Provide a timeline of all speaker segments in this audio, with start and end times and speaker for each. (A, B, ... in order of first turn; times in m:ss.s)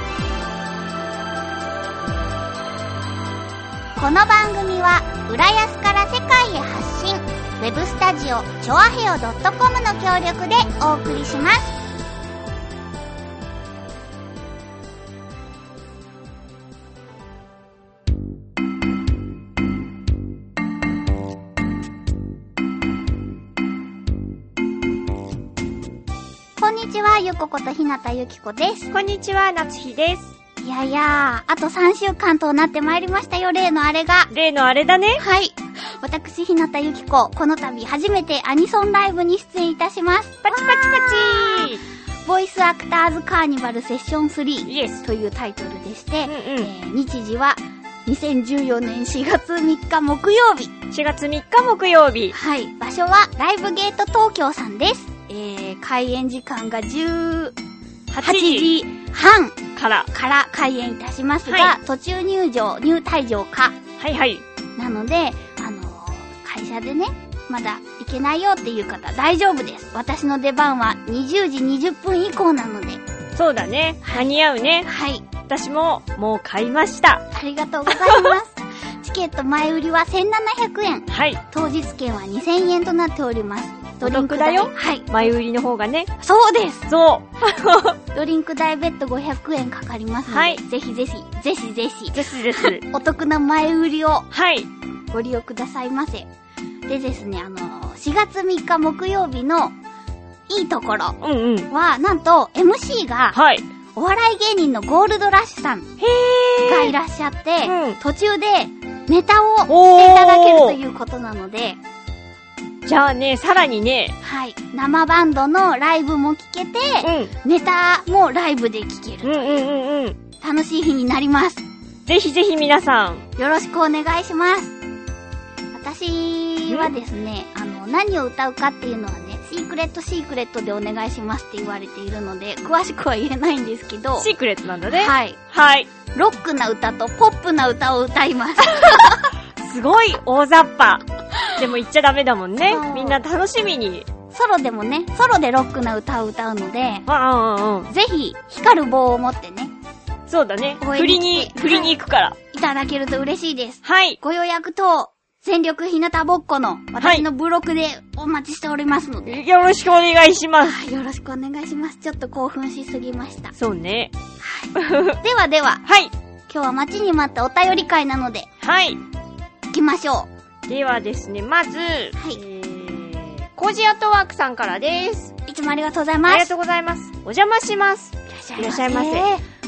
0:04.0-0:11.8 A
0:26.6-0:28.9 A
0:28.9-0:30.3 B
0:30.6-0:34.3 A
0:34.3-0:35.2 B
0:35.2-0:41.7 A
0:40.4-0:41.8 B
0:42.2-0:50.7 A
0:44.7-0:45.0 B
0:46.3-0:46.7 B
0:50.9-0:52.4 B
0:52.3-0:57.6 A
0:58.1-0:58.7 B
0:58.2-0:59.6 A
0:59.8-1:00.1 B
1:00.1-1:03.8 A
1:01.4-1:01.8 B
1:04.0-1:04.4 B
1:04.8-1:13.0 A
1:13.3-1:14.9 B
1:14.0-1:14.3 A
1:14.8-1:15.2 A
1:15.5-1:17.2 B
1:17.3-1:25.1 A
1:17.9-1:18.4 B
1:21.1-1:21.4 B
1:24.0-1:26.1 B
1:26.2-1:26.9 A
1:26.9-1:28.0 B
1:28.1-1:34.3 A
1:30.3-1:30.6 B
1:32.1-1:32.8 B
1:34.3-1:34.7 B
1:35.1-1:36.3 A
1:36.9-1:39.8 A
1:40.5-1:41.2 A
1:41.2-1:41.7 B
1:41.7-1:43.4 A
1:43.3-1:43.6 B
1:43.9-1:45.9 A
1:46.0-1:46.9 B
1:46.7-1:51.8 A
1:47.6-1:48.0 B
1:49.7-1:50.8 B
1:52.9-1:54.1 B
1:54.2-1:59.6 A
1:57.0-1:57.3 B
1:59.2-2:00.2 B
2:00.4-2:01.6 A
2:02.1-2:03.3 B
2:03.4-2:04.8 A
2:05.7-2:14.3 A
2:14.2-2:15.9 B
2:14.9-2:15.4 A
2:16.1-2:19.3 A
2:19.6-2:21.0 B
2:21.5-2:24.1 B
2:22.7-2:23.2 A
2:24.3-2:27.1 A
2:27.1-2:27.9 B
2:27.9-2:29.7 A
2:30.3-2:32.4 B
2:30.8-2:31.9 A
2:32.5-2:39.4 A
2:33.8-2:34.2 B
2:37.0-2:37.2 B
2:39.2-2:40.8 B
2:40.6-2:43.5 A
2:43.5-2:44.1 B
2:44.4-2:45.8 A
2:44.8-2:45.2 B
2:45.8-2:46.1 B
2:46.5-2:48.5 A
2:48.6-2:49.0 B
2:49.7-2:50.3 A
2:50.7-2:55.3 B
2:52.2-2:52.4 A
2:55.4-2:56.5 A
2:56.3-2:59.3 B
2:58.3-2:59.4 A